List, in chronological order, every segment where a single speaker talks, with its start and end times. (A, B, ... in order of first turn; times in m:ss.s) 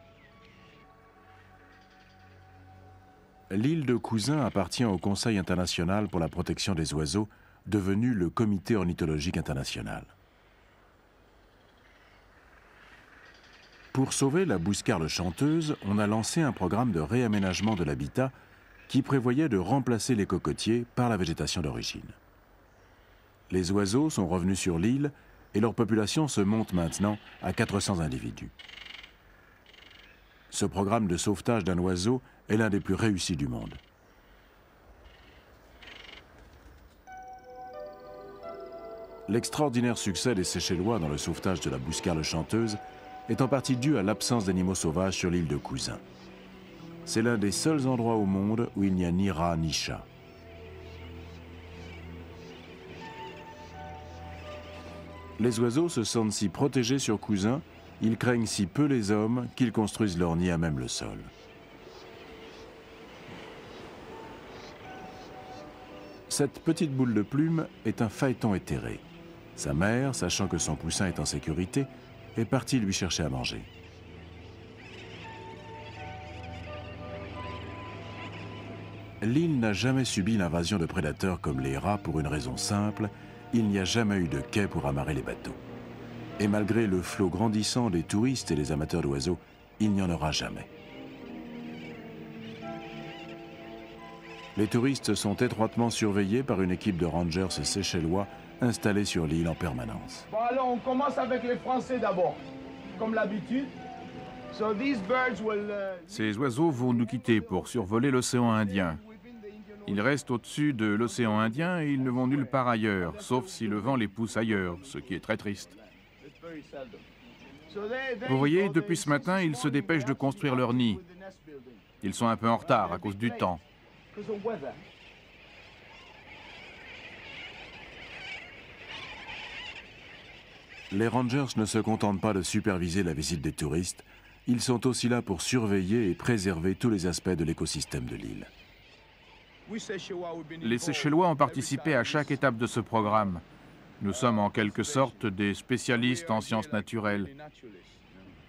0:03.5-0:10.1 A
0:13.9-0:18.3 A
0:18.9-0:22.2 A
0:23.5-0:28.5 A
0:30.5-0:33.8 A
0:39.3-0:46.0 A
0:47.0-0:50.1 A
0:55.4-1:01.3 A
1:06.3-1:09.0 A
1:09.6-1:13.7 A
1:19.2-1:25.6 A
1:26.4-1:30.7 A
1:34.6-1:40.3 A
1:40.3-1:42.4 B
1:43.0-1:43.8 B
1:44.5-1:47.8 B
1:46.1-1:49.0 C
1:48.5-1:50.1 B
1:49.8-1:55.8 C
1:51.2-1:54.8 B
1:55.7-1:57.0 B
1:57.7-2:03.5 B
1:58.2-2:01.0 C
2:02.0-2:03.6 C
2:04.1-2:04.8 B
2:10.9-2:18.5 A
2:19.6-2:22.4 B
2:20.6-2:23.4 C
2:24.0-2:27.3 C
2:24.1-2:25.2 B
2:25.9-2:28.0 B